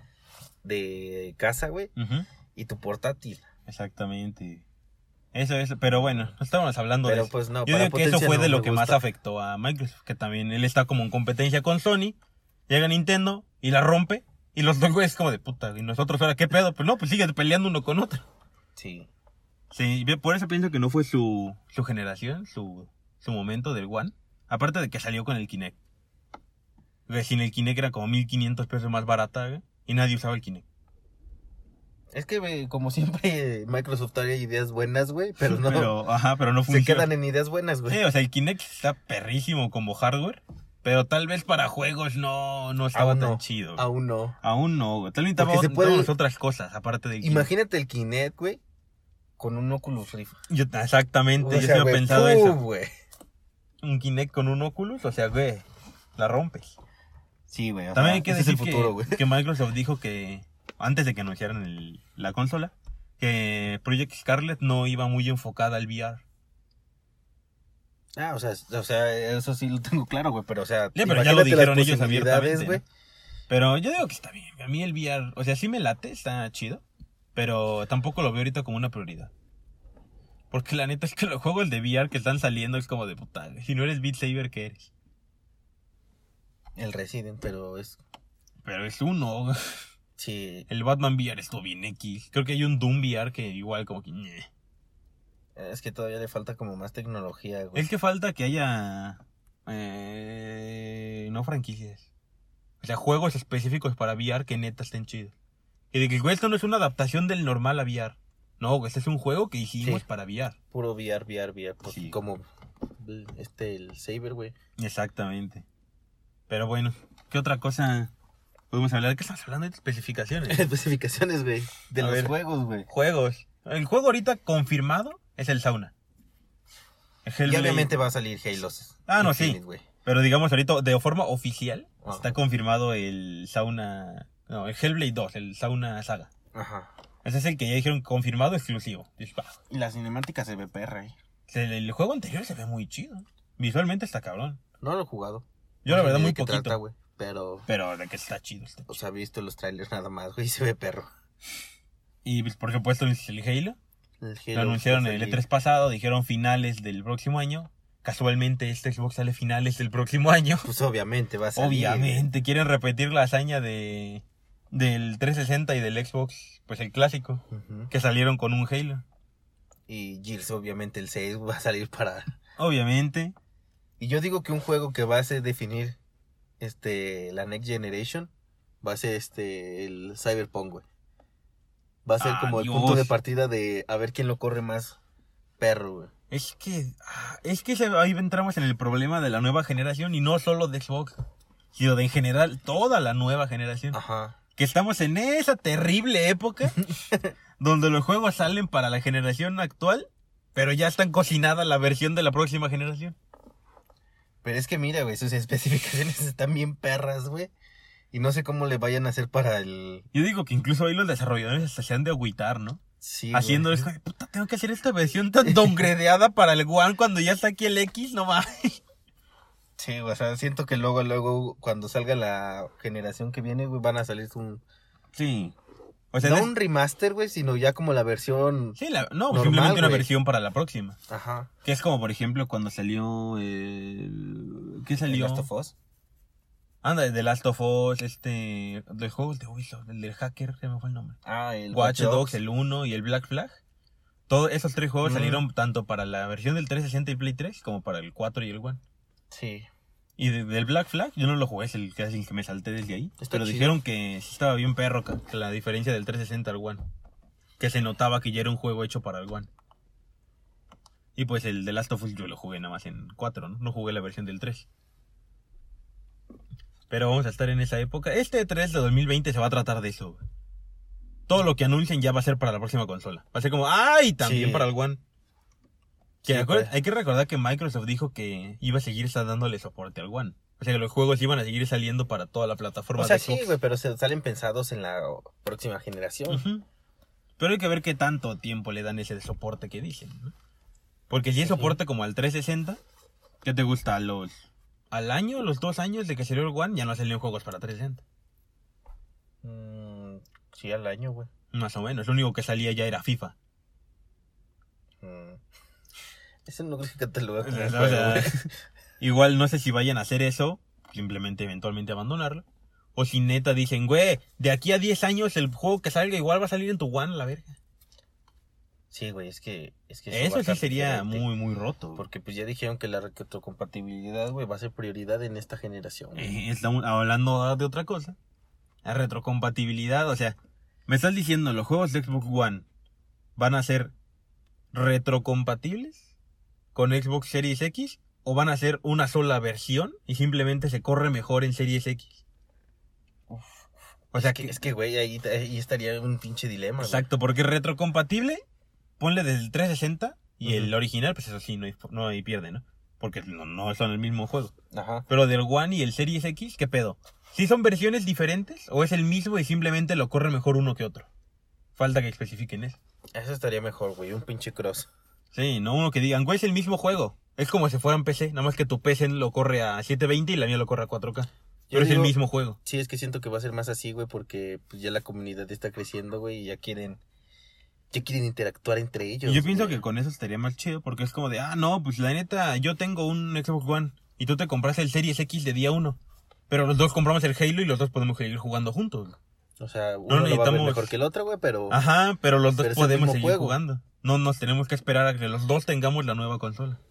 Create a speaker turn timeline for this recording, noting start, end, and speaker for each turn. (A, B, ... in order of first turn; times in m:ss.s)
0:00.6-0:01.9 A
0:02.0-0:02.3 B
0:02.6-0:03.4 A
0:03.7-0:04.6 B
0:05.3-0:12.2 B
0:06.0-0:06.3 A
0:07.0-0:09.0 A
0:12.7-0:18.2 B
0:18.8-0:19.1 A
0:19.7-0:25.8 B
0:27.1-0:30.6 B
0:32.1-0:35.9 A
0:35.4-0:37.1 B
0:36.6-0:38.0 A
0:37.9-0:43.9 B
0:42.9-0:44.4 A
0:44.4-0:47.5 B
0:45.4-0:46.1 A
0:47.2-0:48.6 A
0:49.4-0:50.4 A
0:50.5-0:52.6 B
0:51.4-0:52.9 A
0:53.8-0:55.6 B
0:56.2-0:56.8 B
0:57.5-0:59.2 A
0:57.9-1:06.2 B
1:08.2-1:12.8 A
1:10.9-1:12.8 B
1:13.5-1:16.8 B
1:17.4-1:19.3 B
1:20.5-1:24.9 B
1:26.8-1:28.0 A
1:28.6-1:29.8 B
1:30.2-1:30.7 A
1:30.7-1:34.5 B
1:35.6-1:37.9 A
1:37.8-1:42.1 B
1:42.8-1:45.3 B
1:45.9-1:50.6 B
1:50.7-1:52.4 A
1:51.8-1:52.2 B
1:53.0-1:54.5 A
1:54.8-1:55.6 B
1:56.5-1:58.1 B
1:58.7-2:00.6 B
2:00.5-2:02.9 A
2:02.0-2:02.3 B
2:02.9-2:05.9 B
2:07.2-2:07.9 B
2:07.4-2:09.8 A
2:09.1-2:16.3 B
2:12.0-2:12.3 A
2:16.5-2:16.9 A
2:17.2-2:19.6 B
2:19.7-2:21.2 A
2:21.5-2:24.6 B
2:24.8-2:27.7 A
2:25.8-2:26.8 B
2:27.7-2:29.0 B
2:28.9-2:31.1 A
2:32.2-2:33.8 B
2:34.2-2:35.4 A
2:34.5-2:40.7 B
2:40.6-2:42.3 A
2:41.6-2:49.0 B
2:47.5-2:47.9 A
2:49.9-2:52.3 A
2:52.6-2:53.4 B
2:54.0-2:56.0 A
2:56.6-2:58.3 A
2:58.8-3:00.8 A
3:02.1-3:05.0 A
3:02.2-3:03.2 B
3:05.6-3:06.1 A
3:06.3-3:11.2 B
3:11.7-3:14.0 B
3:13.9-3:14.4 A
3:14.6-3:16.8 B
3:16.8-3:17.3 A
3:17.6-3:23.2 B
3:24.4-3:27.5 A
3:28.1-3:30.1 A
3:30.1-3:32.8 B
3:33.0-3:33.9 A
3:33.3-3:38.8 B
3:35.4-3:35.9 A
3:39.8-3:44.6 A
3:45.1-3:45.5 B
3:46.1-3:46.5 B
3:46.2-3:48.8 A
3:48.8-3:51.0 B
3:49.3-3:50.1 A
3:51.1-3:51.5 A
3:51.6-3:55.5 B
3:55.0-3:55.8 A
3:56.8-4:01.2 B
4:01.2-4:02.4 A
4:01.7-4:03.6 B
4:04.3-4:08.8 B
4:05.0-4:05.4 A
4:09.3-4:09.7 A
4:10.2-4:16.8 B
4:13.2-4:13.8 A
4:17.6-4:19.5 B
4:21.2-4:24.7 B
4:26.9-4:30.2 B
4:31.3-4:35.0 B
4:34.2-4:34.7 A
4:36.2-4:36.7 A
4:36.2-4:43.5 B
4:43.0-4:46.4 A
4:46.3-4:46.6 B
4:47.4-4:50.3 B
4:51.1-4:52.8 B
4:51.4-4:51.8 A
4:53.4-4:58.0 B
4:59.4-5:01.3 A
5:01.5-5:03.4 B
5:05.0-5:05.4 A
5:06.5-5:08.5 A
5:07.4-5:08.5 B
5:09.0-5:12.4 B
5:12.9-5:17.6 B
5:18.9-5:21.3 A
5:20.1-5:22.0 B
5:22.0-5:26.4 A
5:26.2-5:28.2 B
5:28.8-5:30.4 B
5:30.9-5:32.6 B
5:33.4-5:33.9 B
5:34.7-5:36.1 B
5:36.8-5:42.2 B
5:43.3-5:47.1 A
5:44.1-5:44.6 B
5:46.8-5:48.4 B
5:49.0-5:54.5 B
5:50.4-5:50.7 A
5:54.7-5:55.1 A
5:55.1-6:01.1 B
6:01.8-6:02.8 B
6:03.1-6:04.9 A
6:05.3-6:12.6 B
6:11.7-6:17.0 A
6:17.9-6:19.8 A
6:19.2-6:26.0 B
6:26.5-6:29.2 B
6:29.6-6:31.8 A
6:30.1-6:30.9 B
6:31.7-6:36.8 B
6:32.6-6:33.6 A